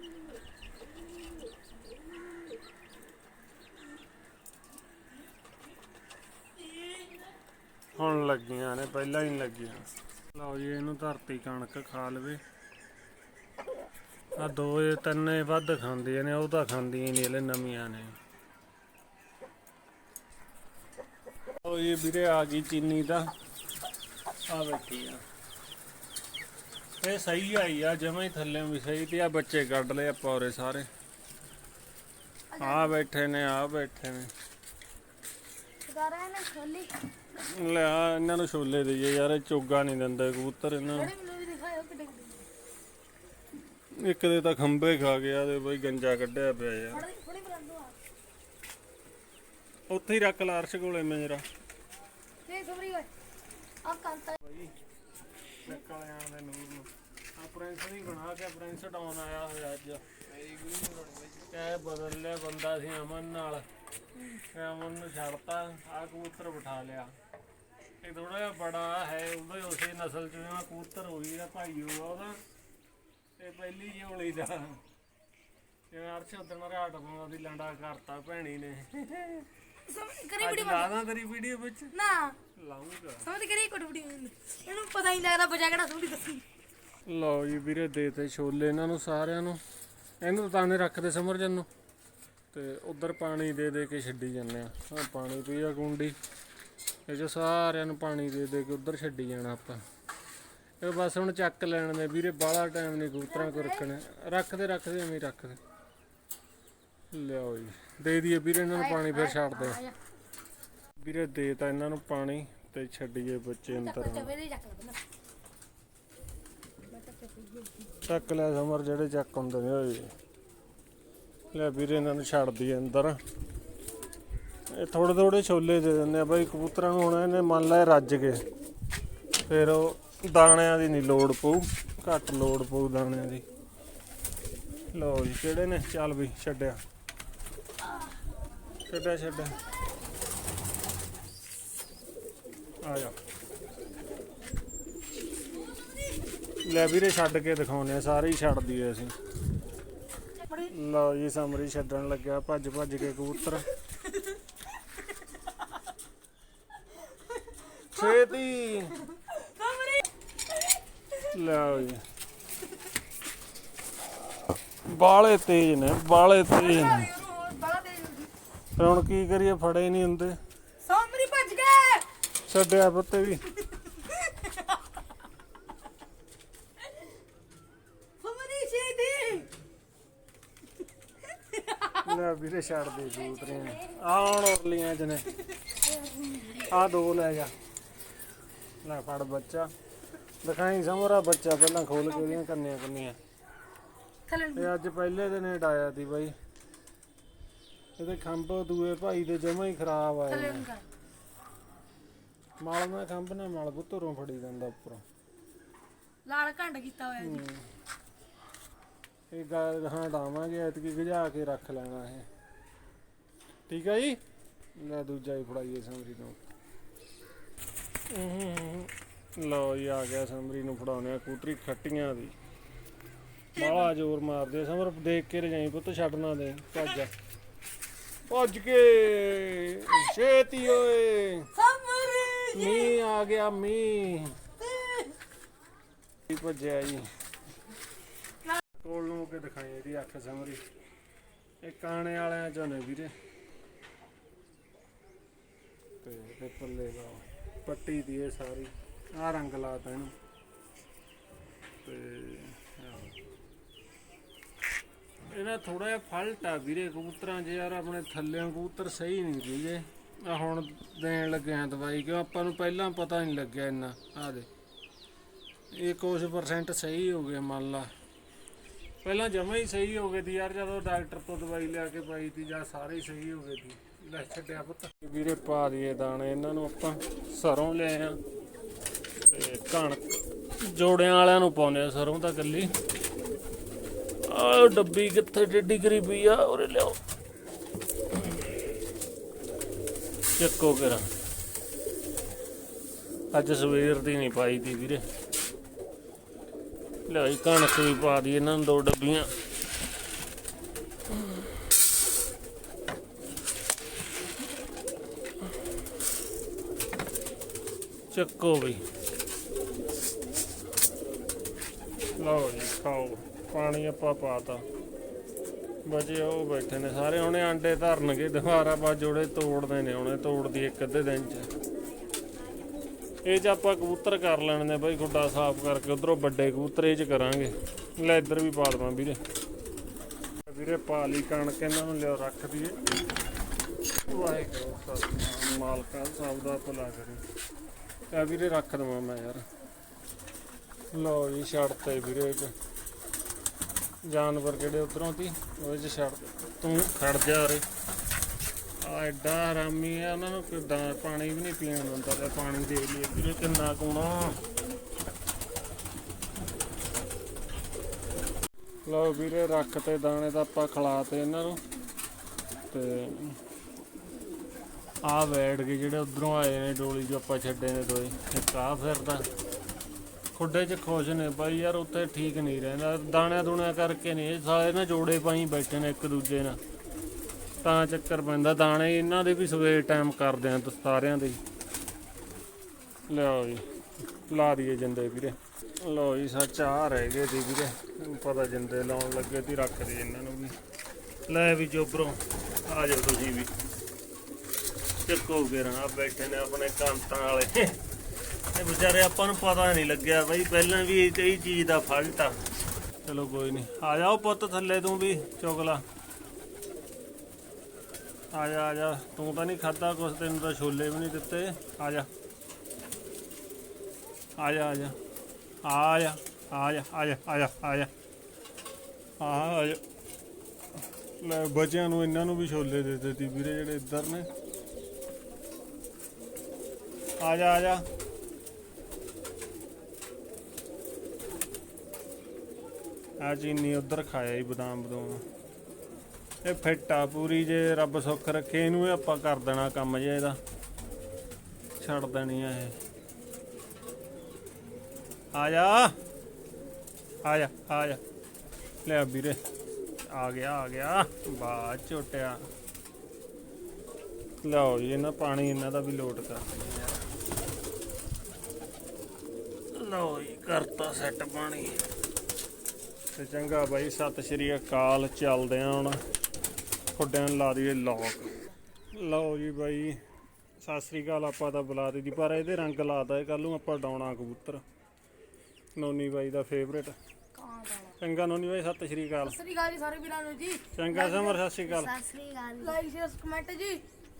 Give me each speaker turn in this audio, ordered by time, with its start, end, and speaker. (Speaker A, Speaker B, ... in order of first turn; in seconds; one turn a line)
Speaker A: 7.9-12.4
Speaker A: 14.3-18.2
Speaker A: 21.6-23.3
Speaker A: 24.5-25.2
Speaker A: 27.0-30.9
Speaker B: 32.5-32.9
Speaker A: 32.6-34.3
Speaker B: 35.9-37.1
Speaker A: 37.3-41.1
Speaker B: 40.9-42.5
Speaker A: 43.8-47.0
Speaker B: 46.9-47.9
Speaker A: 49.9-51.4
Speaker B: 52.5-53.1
Speaker B: 53.8-54.4
Speaker A: 54.4-54.7
Speaker A: 55.6-60.0
Speaker A: 61.4-63.6
Speaker A: 64.4-67.1
Speaker A: 68.0-72.4
Speaker A: 73.4-74.8
Speaker A: 75.9-79.5
Speaker B: 79.8-80.9
Speaker A: 80.4-81.9
Speaker B: 81.9-82.4
Speaker A: 82.5-83.3
Speaker B: 83.2-86.4
Speaker A: 87.1-89.6
Speaker A: 90.2-91.7
Speaker A: 92.5-96.2
Speaker A: 97.1-99.8
Speaker A: 100.8-105.6
Speaker B: 103.3-103.9
Speaker A: 107.1-109.8
Speaker B: 108.7-110.0
Speaker A: 111.0-114.3
Speaker B: 113.7-115.0
Speaker B: 116.9-117.9
Speaker A: 118.0-120.1
Speaker A: 121.5-123.2
Speaker A: 124.7-128.4
Speaker A: 129.5-133.4
Speaker A: 134.9-136.8
Speaker A: 138.9-139.6
Speaker A: 142.8-143.2
Speaker A: 146.6-149.2
Speaker B: 150.4-150.7
Speaker A: 150.6-153.7
Speaker B: 157.5-158.2
Speaker A: 157.8-159.0
Speaker B: 159.1-160.1
Speaker B: 160.6-161.2
Speaker A: 161.2-162.0
Speaker A: 164.8-167.1
Speaker B: 166.6-168.3
Speaker A: 168.8-170.4
Speaker B: 170.8-172.1
Speaker A: 172.3-173.6
Speaker B: 174.0-174.7
Speaker B: 178.2-179.5
Speaker B: 181.3-182.1
Speaker A: 182.0-185.4
Speaker B: 183.1-183.9
Speaker B: 186.0-186.7
Speaker A: 186.5-187.5
Speaker A: 188.8-189.7
Speaker A: 190.4-193.2
Speaker B: 194.3-194.7
Speaker A: 194.5-196.3
Speaker A: 198.0-200.7
Speaker B: 200.3-200.8
Speaker A: 202.6-205.0
Speaker B: 206.2-207.5
Speaker A: 207.2-207.7
Speaker A: 209.3-212.3
Speaker A: 213.7-214.2
Speaker A: 214.8-216.4
Speaker A: 218.1-222.3
Speaker A: 223.5-227.1
Speaker B: 223.6-223.9
Speaker A: 228.3-231.5
Speaker B: 231.5-232.9
Speaker A: 232.5-234.4
Speaker B: 234.6-235.2
Speaker A: 236.3-237.1
Speaker A: 238.8-240.6
Speaker A: 241.6-243.1
Speaker A: 246.0-250.1
Speaker A: 251.8-253.1
Speaker A: 255.3-264.5
Speaker A: 265.7-267.9
Speaker A: 269.0-278.2
Speaker A: 279.2-282.7
Speaker A: 284.2-287.0
Speaker A: 290.4-291.1
Speaker A: 293.3-295.0
Speaker A: 297.1-299.3
Speaker A: 308.1-308.8
Speaker A: 312.2-314.6
Speaker A: 315.9-321.5
Speaker A: 323.2-329.2
Speaker A: 330.4-332.8
Speaker A: 334.0-337.2
Speaker A: 338.1-339.4
Speaker A: 340.9-342.5
Speaker A: 344.0-347.6
Speaker A: 348.8-354.4
Speaker A: 358.8-361.6
Speaker A: 362.7-363.4
Speaker A: 365.0-369.3
Speaker A: 370.3-376.6
Speaker A: 377.6-381.4
Speaker A: 383.1-383.7
Speaker A: 384.2-390.6
Speaker A: 391.3-393.5
Speaker A: 395.0-397.8
Speaker A: 398.5-402.4
Speaker A: 403.0-405.8
Speaker A: 408.3-412.1
Speaker A: 414.4-415.0
Speaker A: 415.6-417.9
Speaker A: 419.2-419.8
Speaker A: 421.2-424.3
Speaker A: 427.2-427.9
Speaker A: 433.2-435.2
Speaker A: 436.4-440.4
Speaker A: 441.8-442.8
Speaker A: 445.3-445.9
Speaker A: 447.2-448.0
Speaker A: 448.8-449.4
Speaker A: 450.1-452.5
Speaker A: 454.4-457.1
Speaker A: 459.7-461.8
Speaker A: 463.1-466.0
Speaker A: 466.9-468.3
Speaker A: 468.9-470.0
Speaker A: 470.6-474.6
Speaker A: 475.7-476.9
Speaker B: 477.3-477.9
Speaker A: 478.0-479.4
Speaker B: 479.2-483.8
Speaker A: 480.7-481.9